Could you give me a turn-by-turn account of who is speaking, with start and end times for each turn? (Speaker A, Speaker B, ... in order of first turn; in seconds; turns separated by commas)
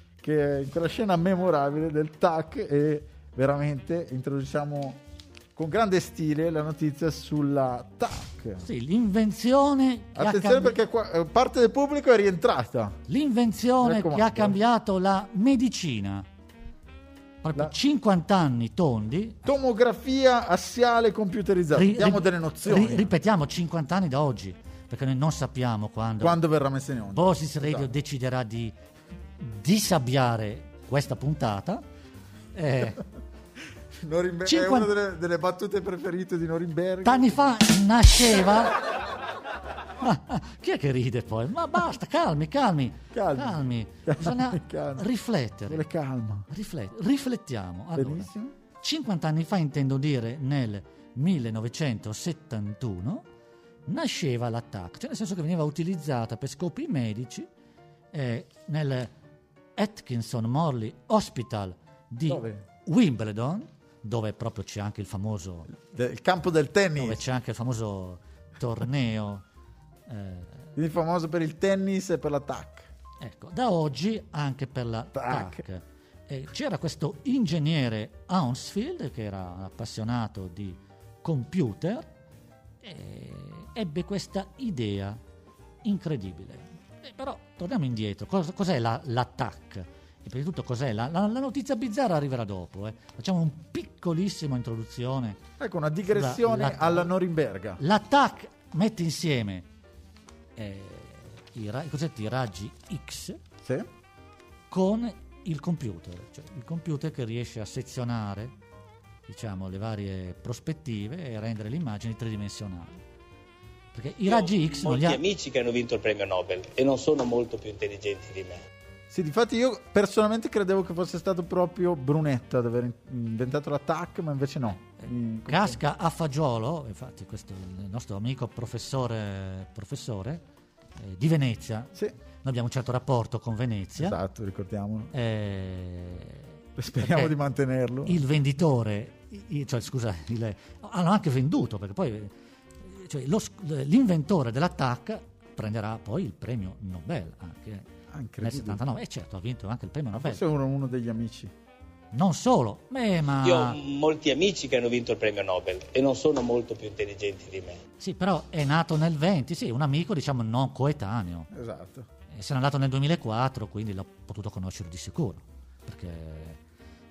Speaker A: 0.2-5.0, Speaker A: 5.5-8.7, Speaker B: 8.6-10.8, Speaker A: 10.2-13.0, Speaker B: 13.1-16.2, Speaker A: 13.8-14.6, Speaker B: 17.4-19.4, Speaker A: 19.4-23.1, Speaker B: 21.7-26.4, Speaker A: 26.2-27.9, Speaker B: 27.1-28.7, Speaker B: 29.4-31.8, Speaker B: 32.5-33.0, Speaker A: 34.0-37.4, Speaker B: 34.5-34.9, Speaker B: 37.0-38.8, Speaker B: 40.0-45.8, Speaker A: 43.1-45.0, Speaker A: 45.7-46.5, Speaker B: 46.5-48.3, Speaker A: 47.9-48.5, Speaker B: 48.8-53.2, Speaker B: 53.9-57.5, Speaker B: 58.1-59.1, Speaker B: 59.8-65.7, Speaker A: 62.3-62.6, Speaker A: 65.7-67.2, Speaker B: 67.0-69.4, Speaker B: 70.1-70.7, Speaker A: 70.8-72.9, Speaker B: 73.2-82.1, Speaker A: 75.1-75.6, Speaker B: 82.8-85.2, Speaker B: 85.8-95.4, Speaker A: 95.6-97.8, Speaker B: 96.1-97.1, Speaker B: 97.8-99.7, Speaker B: 100.5-103.4, Speaker B: 104.7-108.5, Speaker B: 109.3-113.0, Speaker B: 113.9-115.2, Speaker C: 114.2-118.6, Speaker A: 119.1-125.8, Speaker B: 125.0-130.4, Speaker B: 131.0-134.2, Speaker A: 134.0-135.1, Speaker B: 135.1-136.4, Speaker A: 136.8-138.2, Speaker B: 137.0-137.3, Speaker B: 138.1-142.3, Speaker B: 142.8-147.9, Speaker A: 148.1-148.8, Speaker B: 148.4-150.4, Speaker A: 150.1-151.5, Speaker B: 152.1-153.8, Speaker C: 153.4-157.8, Speaker B: 158.0-161.5, Speaker A: 161.5-162.1, Speaker B: 162.3-166.6